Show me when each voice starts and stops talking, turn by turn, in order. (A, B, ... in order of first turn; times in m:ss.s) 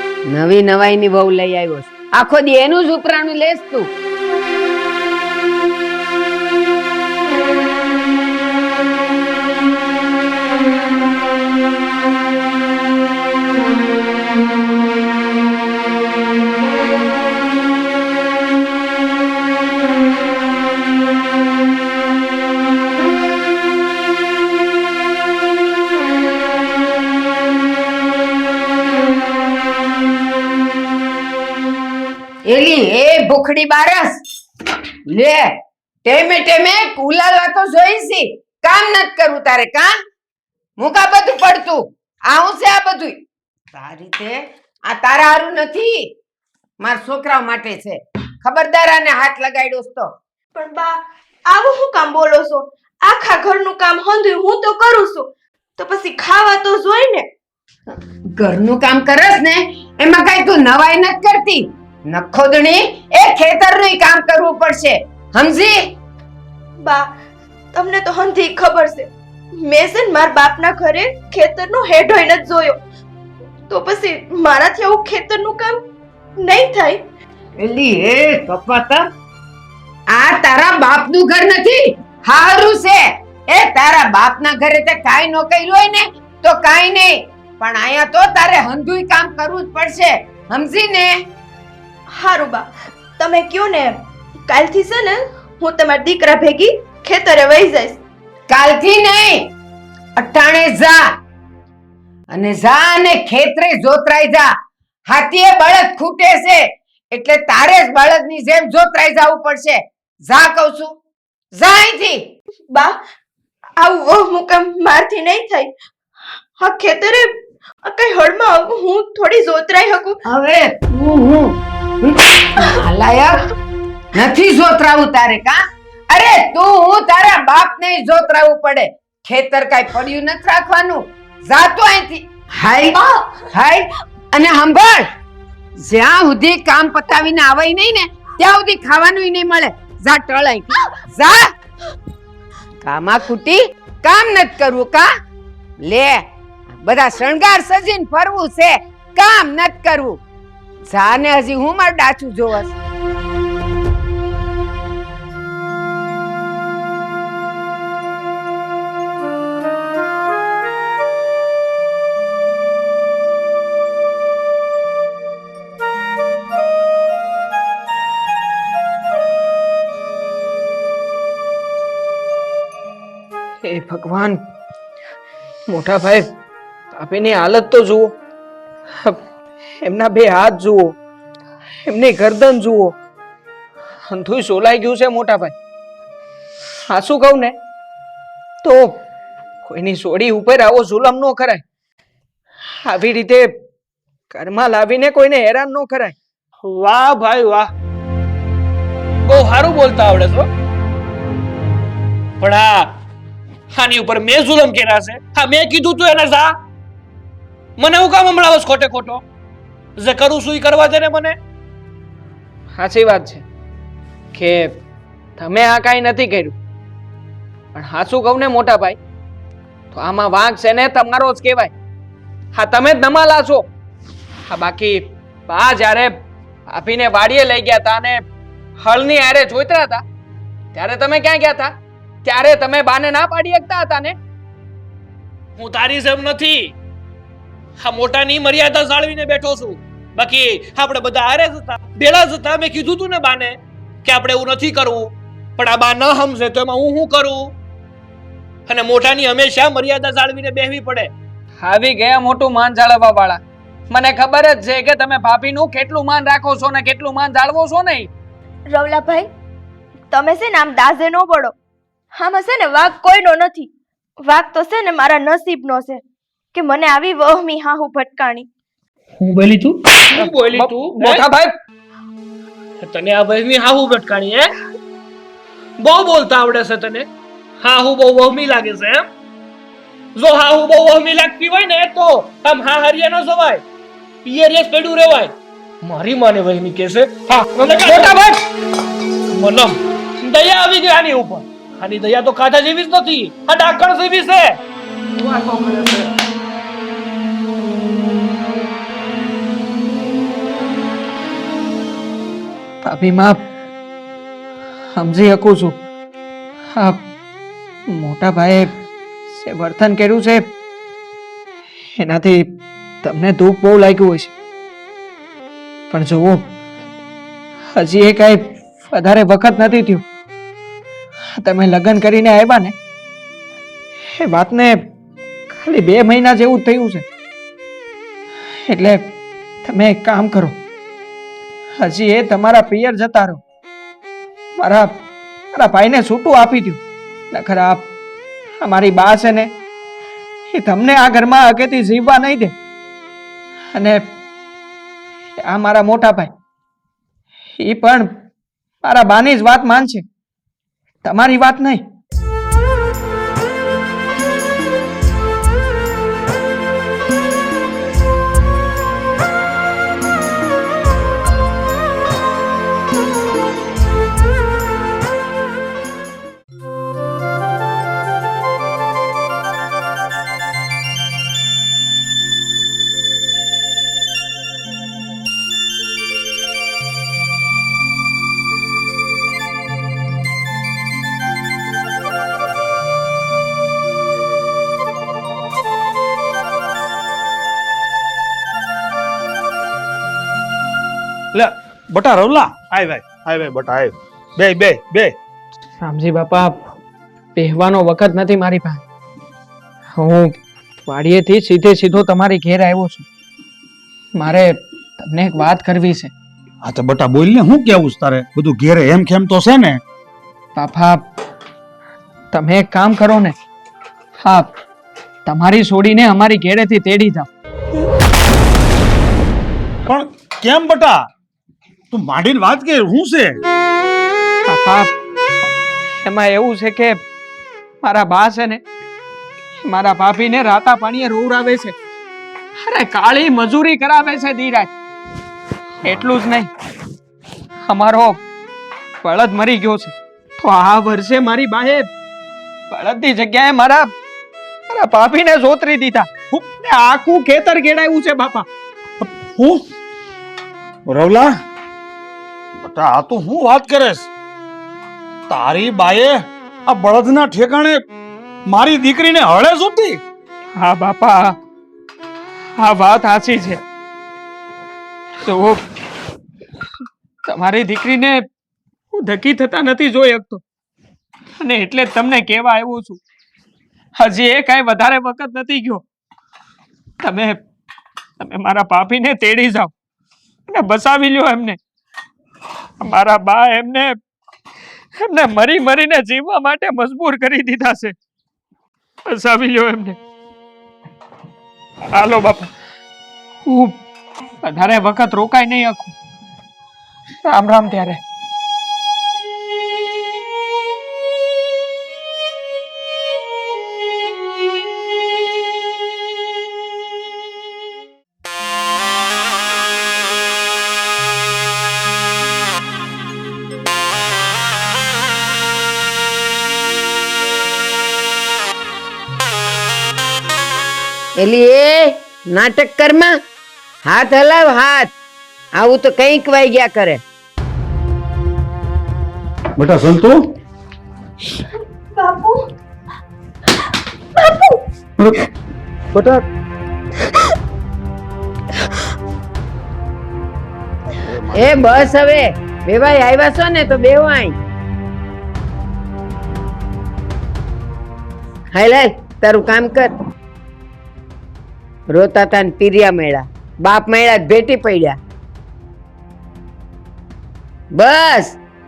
0:00.3-0:03.9 A
0:32.5-0:34.2 A
0:35.1-0:35.5 A
0:36.0-0:39.9 A
0:40.8-0:43.2 A
0:43.7-0:46.1 A
0:46.8-0:50.1 A
0:50.5-0:51.0 B
0:51.5-0:57.3 B
0:58.4-1:05.8 A
1:06.8-1:07.1 B
1:07.7-1:12.8 B
1:13.7-1:15.8 B
1:16.4-1:17.0 B
1:17.6-1:19.1 A
1:20.1-1:31.2 A
1:32.1-1:34.0 B
1:34.5-1:38.0 B
1:38.5-1:39.5 A
1:40.2-1:41.0 A
1:42.3-1:44.5 A
1:45.1-1:50.9 A
1:51.6-1:52.2 A
1:52.7-1:53.0 B
1:53.8-1:55.7 B
1:56.6-1:57.3 B
1:57.8-2:00.2 B
2:00.2-2:03.5 A
2:04.1-2:15.1 A
2:13.1-2:13.4 B
2:15.8-2:21.5 A
2:22.8-2:25.1 A
2:25.8-2:26.2 A
2:26.8-2:30.2 A
2:30.9-2:32.7 A
2:53.6-2:54.4 C
2:55.7-2:56.3 C
2:56.9-2:58.1 C
2:59.8-3:01.0 C
3:01.8-3:02.9 C
3:04.1-3:05.5 C
3:06.9-3:07.5 C
3:08.6-3:08.9 C
3:09.6-3:11.6 C
3:12.8-3:13.5 C
3:14.3-3:16.2 C
3:16.6-3:17.7 D
3:19.2-3:20.5 D
3:22.4-3:22.9 D
3:23.7-3:26.5 D
3:27.8-3:29.2 D
3:30.0-3:31.4 D
3:32.8-3:33.4 C
3:34.3-3:34.8 C
3:35.4-3:36.6 C
3:37.7-3:39.0 C
3:39.9-3:41.7 C
3:42.5-3:43.7 C
3:44.5-3:46.1 C
3:46.7-3:48.2 C
3:48.8-3:50.0 C
3:50.7-3:51.7 C
3:52.2-3:54.2 C
3:55.6-3:56.7 D
3:57.8-4:07.5 D
4:08.7-4:11.1 D
4:11.6-4:18.1 C
4:18.7-4:19.3 B
4:20.1-4:21.5 B
4:22.2-4:23.7 B
4:24.2-4:26.0 B
4:26.5-4:28.5 B
4:29.2-4:31.2 D
4:30.2-4:31.5 C
4:32.8-4:34.5 D
4:35.8-4:37.1 D
4:37.6-4:39.1 D
4:40.1-4:43.6 D
4:44.2-4:48.2 D
4:47.8-4:48.4 C
4:49.3-4:54.6 D
4:55.2-4:56.1 D
5:02.8-5:03.4 C
5:04.9-5:05.8 C
5:06.7-5:07.0 C
5:07.9-5:08.7 C
5:09.4-5:10.4 C
5:12.0-5:12.4 C
5:13.0-5:14.3 C
5:15.9-5:16.4 C
5:17.7-5:20.0 C
5:21.4-5:22.7 C
5:24.2-5:24.8 C
5:25.5-5:27.0 C
5:28.6-5:29.1 C
5:29.6-5:30.6 C
5:31.8-5:33.4 C
5:34.6-5:34.9 C
5:35.5-5:36.8 C
5:37.3-5:37.9 C
5:38.6-5:39.5 C
5:40.5-5:42.5 C
5:43.7-5:44.0 C
5:45.4-5:46.3 C
5:47.6-5:48.1 C
5:48.8-5:50.0 C
5:51.0-5:51.8 C
6:31.3-6:35.1 E
6:35.8-6:36.6 C
6:37.3-6:38.8 C
6:39.9-6:43.1 C
6:44.1-6:46.1 C
6:46.6-6:49.7 E
6:50.5-6:51.0 C
6:52.3-6:53.4 C
6:54.2-6:54.5 C
6:55.2-6:57.3 C
6:59.8-7:01.0 E
7:01.9-7:03.3 E
7:04.4-7:04.9 C
7:06.0-7:07.0 C
7:07.8-7:08.6 C
7:09.6-7:11.7 C
7:12.6-7:14.7 C
7:15.8-7:16.5 C
7:17.7-7:18.2 C
7:19.0-7:21.9 C
7:22.7-7:23.9 C
7:24.7-7:28.4 C
7:29.0-7:29.6 E
7:30.9-7:31.3 E
7:32.6-7:34.0 E
7:35.3-7:36.1 E
7:36.7-7:37.7 E
7:38.5-7:40.0 E
7:40.6-7:41.4 C
7:42.6-7:43.6 C
7:45.2-7:45.6 C
7:47.2-7:48.2 C
7:48.9-7:50.4 C
7:51.4-7:53.0 C
7:54.0-7:55.8 C
7:57.0-7:57.4 C
7:58.2-7:59.7 C
8:00.5-8:01.6 C
8:02.8-8:04.0 C
8:05.0-8:07.9 C
8:09.0-8:10.0 C
8:11.9-8:12.5 C
8:13.4-8:13.8 C
8:14.4-8:15.9 C
8:17.2-8:18.0 C
8:41.2-8:43.2 A
8:43.8-8:44.9 A
8:45.6-8:47.0 A
8:49.6-8:50.2 E
8:51.9-8:52.5 B
8:54.2-8:54.6 B
8:55.9-8:56.2 E
9:01.3-9:04.4 A
9:08.5-9:09.9 A
9:11.9-9:15.0 A
9:17.7-9:18.4 A